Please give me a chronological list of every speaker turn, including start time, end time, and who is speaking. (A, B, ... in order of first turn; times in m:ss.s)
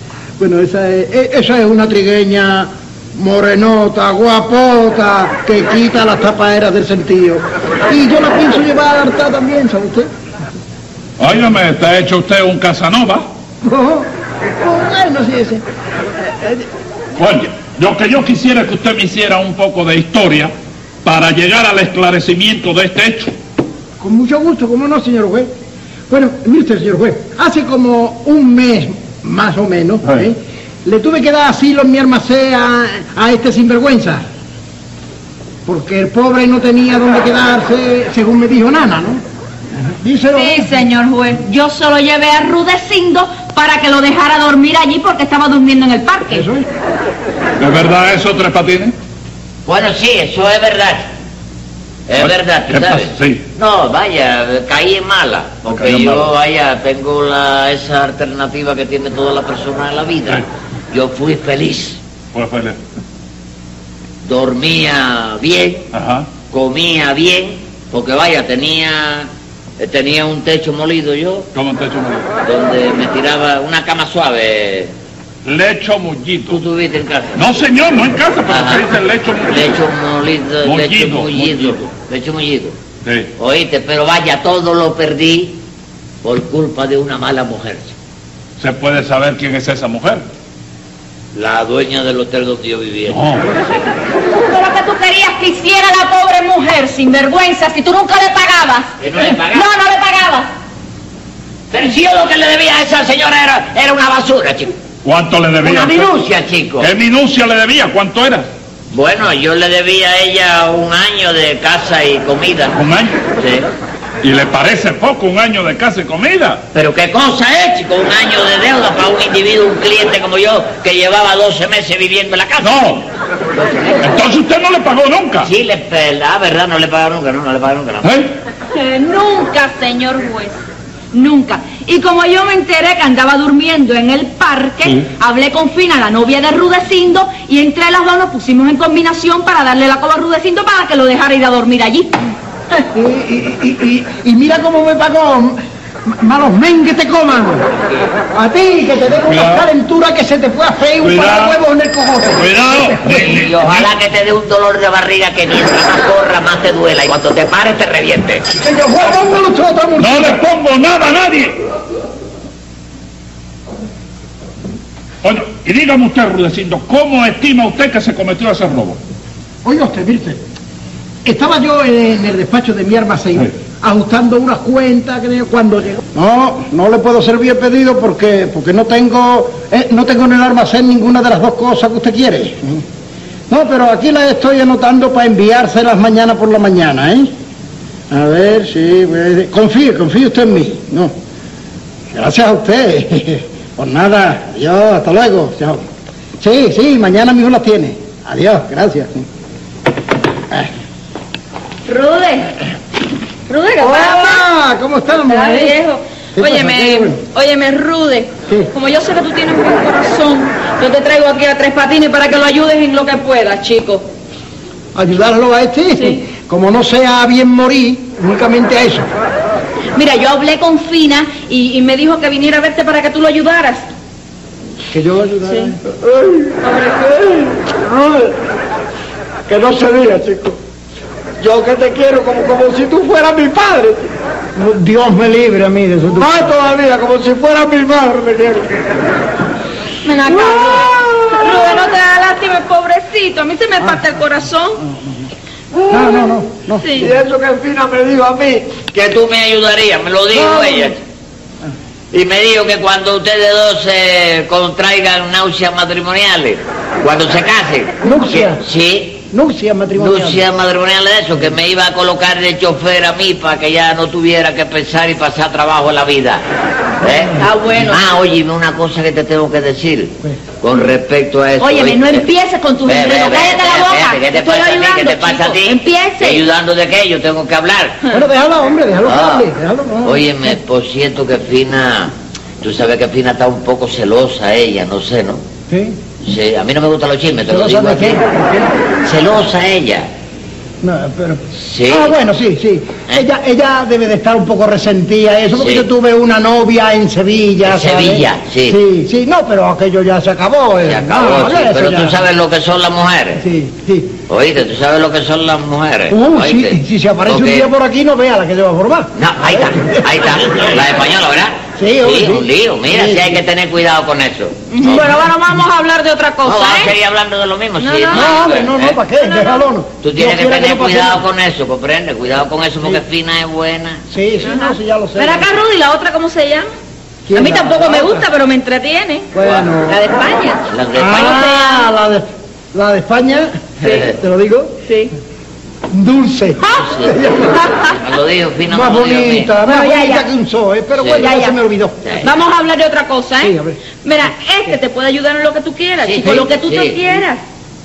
0:00.4-0:10.1 A
0:11.2-0:13.2 B
0:13.6-0:14.1 A
0:14.6-0:15.6 A
0:16.4-0:16.6 A
0:17.2-0:20.5 B
0:21.0-0:23.3 B
0:24.0-0:25.5 A
0:26.1-0:34.2 A
0:35.6-0:39.2 A
0:39.9-0:40.7 A
0:40.3-0:46.5 C
0:46.3-0:46.6 A
0:47.6-0:48.9 B
0:49.6-0:51.0 D
0:52.1-1:02.0 D
0:52.2-0:53.4 B
0:55.7-0:56.3 B
1:02.3-1:02.8 B
1:04.2-1:05.9 D
1:05.9-1:06.3 B
1:06.5-1:11.5 D
1:11.5-1:12.3 B
1:12.4-1:14.9 D
1:15.4-1:16.6 B
1:16.5-1:17.5 D
1:17.4-1:19.8 B
1:18.5-1:18.9 D
1:19.5-1:22.8 D
1:20.6-1:21.8 B
1:23.0-1:23.3 B
1:23.4-1:25.6 D
1:26.2-1:27.9 D
1:28.6-1:30.2 B
1:31.3-1:33.2 D
1:33.1-1:33.5 B
1:34.3-1:40.5 C
1:39.0-1:39.7 D
1:41.7-1:44.7 D
1:45.0-1:46.1 B
1:45.6-1:46.9 D
1:46.8-1:48.5 B
1:48.9-1:52.8 D
1:52.7-1:53.2 B
1:53.3-1:53.7 D
1:54.2-1:56.6 B
1:56.7-2:03.0 D
2:02.6-2:03.0 B
2:03.5-2:04.2 D
2:04.0-2:05.5 B
2:05.4-2:08.2 D
2:08.0-2:08.3 B
2:08.7-2:10.6 C
2:11.1-2:22.2 C
2:22.8-2:27.7 A
2:28.3-2:33.0 A
2:29.3-2:29.6 B
2:31.0-2:31.6 B
2:32.4-2:33.9 B
2:33.0-2:38.4 D
2:38.5-2:40.4 A
2:40.0-2:41.6 B
2:45.2-2:49.0 B
2:49.6-2:50.4 A
2:51.2-3:02.8 A
3:03.5-3:07.3 A
3:08.1-3:11.1 A
3:12.1-3:15.8 A
3:16.4-3:19.3 A
3:21.9-3:22.6 C
3:23.5-3:24.4 C
3:23.8-3:25.8 A
3:25.3-3:34.0 C
3:26.4-3:27.2 A
3:34.9-3:39.1 A
3:39.9-3:43.9 C
3:44.9-3:46.5 A
3:45.5-3:45.7 C
3:46.7-3:47.0 C
3:47.6-3:48.3 A
3:49.5-3:50.5 A
3:51.4-3:54.0 A
3:54.6-3:58.8 A
4:00.0-4:04.8 C
4:00.3-4:01.7 A
4:05.9-4:08.0 A
4:06.8-4:07.1 C
4:08.8-4:11.0 D
4:10.3-4:10.9 A
4:12.1-4:19.2 D
4:18.0-4:18.6 A
4:19.3-4:20.4 A
4:20.0-4:26.4 D
4:27.0-4:32.2 D
4:27.4-4:28.0 C
4:31.6-4:36.4 C
4:32.9-4:38.0 D
4:38.1-4:40.3 A
4:39.0-4:39.5 D
4:40.0-4:45.4 D
4:45.7-4:46.0 A
4:46.2-4:48.2 D
4:47.5-4:48.7 A
4:49.0-4:50.1 D
4:50.8-5:02.2 A
4:51.6-4:52.1 D
4:55.5-4:55.9 D
4:57.6-4:58.8 D
5:00.8-5:03.4 D
5:03.4-5:04.2 A
5:04.3-5:07.7 D
5:06.1-5:10.0 A
5:09.2-5:15.2 D
5:11.8-5:13.4 A
5:14.7-5:16.9 C
5:16.4-5:19.0 D
5:17.8-5:18.5 C
5:18.1-5:21.2 A
5:19.2-5:19.7 C
5:20.0-5:24.0 D
5:24.1-5:25.5 A
5:24.4-5:26.7 C
5:27.3-5:28.3 A
5:27.3-5:29.3 C
5:29.3-5:30.0 A
5:29.9-5:31.9 C
5:30.7-5:31.5 D
5:30.9-5:34.8 A
5:33.8-5:34.2 D
5:34.9-5:35.1 C
5:35.9-5:37.7 A
5:36.7-5:39.5 D
5:38.7-5:42.1 A
5:39.6-5:40.3 C
5:41.0-5:41.2 D
5:41.2-5:41.6 C
5:42.2-5:47.4 C
5:43.4-5:43.8 A
5:46.0-5:47.0 D